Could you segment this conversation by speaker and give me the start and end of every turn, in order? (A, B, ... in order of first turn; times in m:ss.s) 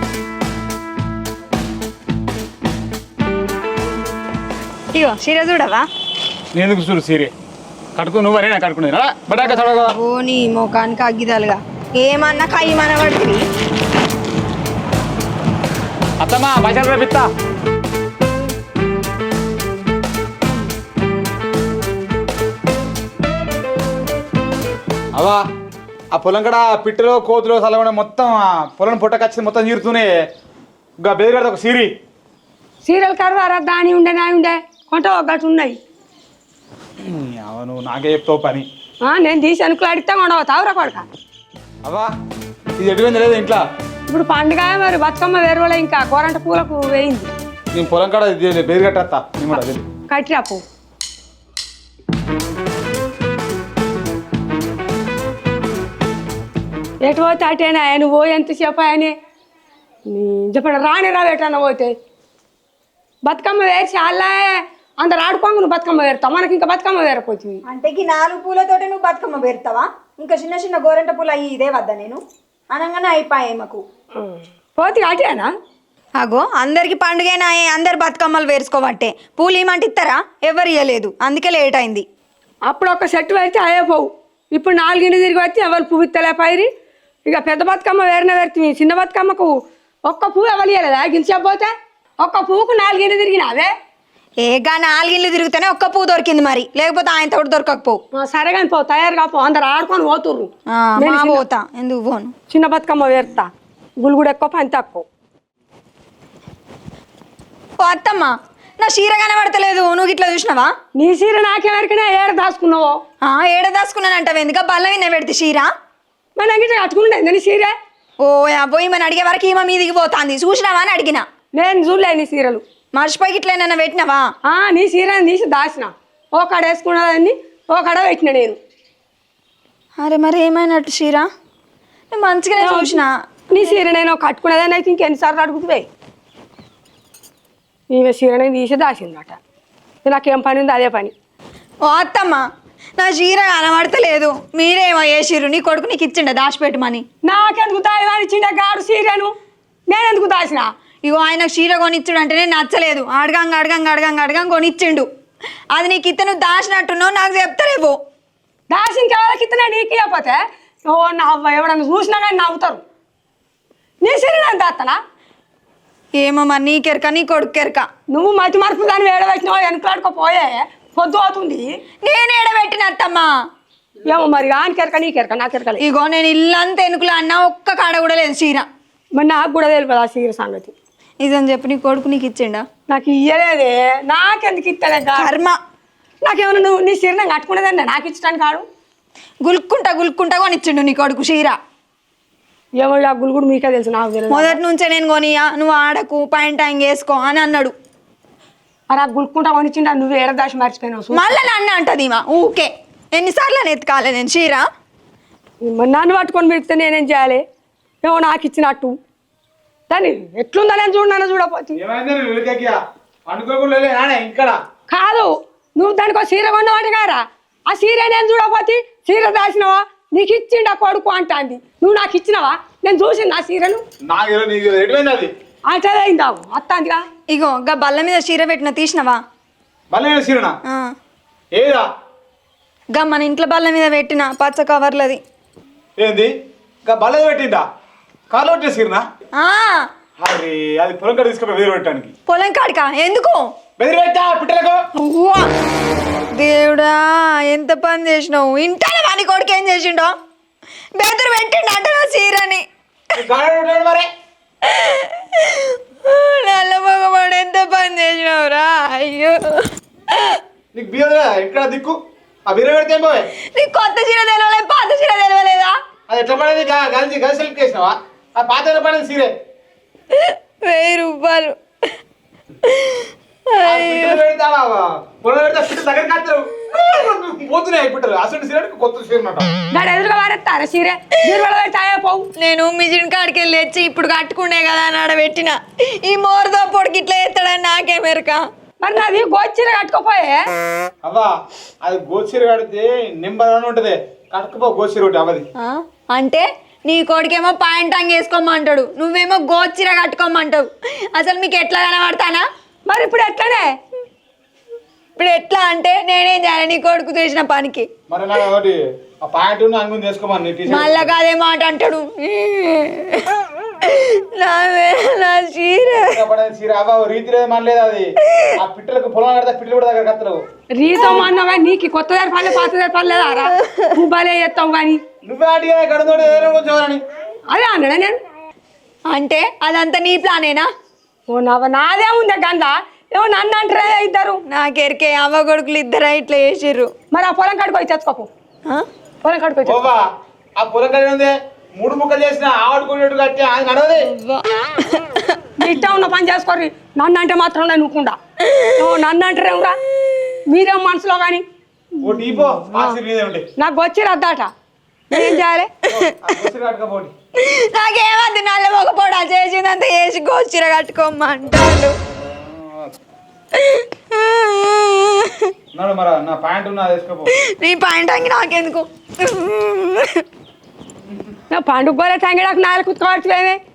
0:04.9-0:05.8 A
0:06.5-0:07.3 B
0:08.0-0:10.0 B
0:09.4-0:13.4 A
0:16.2-0:17.3 B
0:25.1-0:25.4 B
0:26.1-0:30.1 B
0:31.0-0:31.9 B
0:32.8-0:35.8 C
0:37.0-0:38.7 B
0:39.0-0:41.0 C
0:41.8-0:42.1 B
0:42.8-0:43.6 B
0:44.1-0:47.3 C
0:47.7-0:49.8 B
0:50.1-0:50.6 C
0:57.0-0:59.1 C
1:00.1-1:01.9 C
1:03.2-1:07.6 C
1:07.6-1:12.2 A
1:12.7-1:13.8 A
1:14.2-1:15.5 C
1:16.2-1:22.0 A
1:22.7-1:26.7 C
1:27.3-1:29.5 C
1:30.1-1:33.7 C
1:34.4-1:38.0 A
1:38.2-1:41.4 C
1:40.7-1:42.3 A
1:42.5-1:43.5 C
1:44.0-1:45.0 C
1:47.8-1:50.7 A
1:51.0-1:52.9 C
1:53.2-1:55.7 A
1:56.4-1:57.7 C
1:58.2-2:01.2 A
2:01.5-2:02.6 C
2:02.9-2:04.2 A
2:04.5-2:08.6 C
2:10.0-2:11.3 A
2:12.1-2:13.1 A
2:12.6-2:15.9 C
2:17.9-2:19.4 C
2:20.0-2:21.1 C
2:21.8-2:22.4 A
2:23.0-2:27.0 A
2:27.2-2:29.3 C
2:29.9-2:30.6 C
2:31.0-2:35.1 A
2:35.7-2:38.0 A
2:38.7-2:42.8 C
2:44.0-2:45.0 C
2:46.2-2:47.8 A
2:48.1-2:51.6 C
2:52.0-2:53.3 A
2:54.0-2:55.8 C
2:55.8-2:58.6 A
2:59.2-3:00.7 C
3:01.2-3:02.6 A
3:02.9-3:05.3 C
3:05.2-3:05.5 A
3:06.2-3:08.6 C
3:09.4-3:11.6 A
3:12.8-3:14.6 C
3:14.3-3:17.7 A
3:18.9-3:21.2 C
3:21.1-3:24.6 A
3:25.6-3:27.4 C
3:28.0-3:28.9 C
3:29.9-3:31.8 C
3:31.7-3:32.7 B
3:33.3-3:34.6 B
3:34.9-3:43.8 C
3:44.1-3:45.3 B
3:45.7-3:47.0 C
3:47.3-3:49.2 A
3:49.9-3:50.5 B
3:51.5-3:51.8 B
3:52.9-3:55.2 A
3:56.0-3:56.3 B
3:56.8-3:57.6 B
3:58.3-3:59.0 B
3:59.4-3:59.8 A
4:00.2-4:02.1 B
4:02.3-4:03.4 A
4:03.8-4:04.8 B
4:04.9-4:05.5 A
4:06.4-4:10.1 A
4:11.0-4:12.6 A
4:13.2-4:14.1 B
4:14.7-4:19.6 A
4:20.7-4:23.2 B
4:23.5-4:25.7 A
4:26.1-4:29.3 B
4:30.1-4:31.5 A
4:32.7-4:34.2 A
4:33.6-4:39.5 B
4:39.7-4:42.2 C
4:42.4-4:48.4 A
4:48.8-4:50.4 C
4:51.0-4:51.3 B
4:51.8-4:55.5 B
4:55.6-5:02.4 A
5:02.9-5:03.7 C
5:05.2-5:07.9 A
5:08.1-5:11.1 B
5:10.7-5:13.3 A
5:13.8-5:16.2 A
5:16.2-5:20.4 B
5:20.8-5:25.0 C
5:25.2-5:27.0 B
5:27.5-5:28.2 C
5:29.1-5:30.7 A
5:31.3-5:34.4 C
5:34.5-5:36.9 A
5:37.1-5:38.3 C
5:39.2-5:39.9 C
5:39.6-5:40.0 B
5:40.6-5:44.0 B
5:44.1-5:45.4 A
5:45.6-5:48.2 C
5:48.7-5:49.8 C
5:50.5-5:51.4 C
5:52.0-5:53.5 B
5:52.1-5:53.0 C
5:53.6-5:54.5 C
5:55.1-5:55.7 C
5:55.9-5:57.1 B
5:57.4-6:01.9 A
6:03.7-6:05.4 A
6:05.7-6:07.3 B
6:07.5-6:10.2 A
6:11.5-6:13.6 C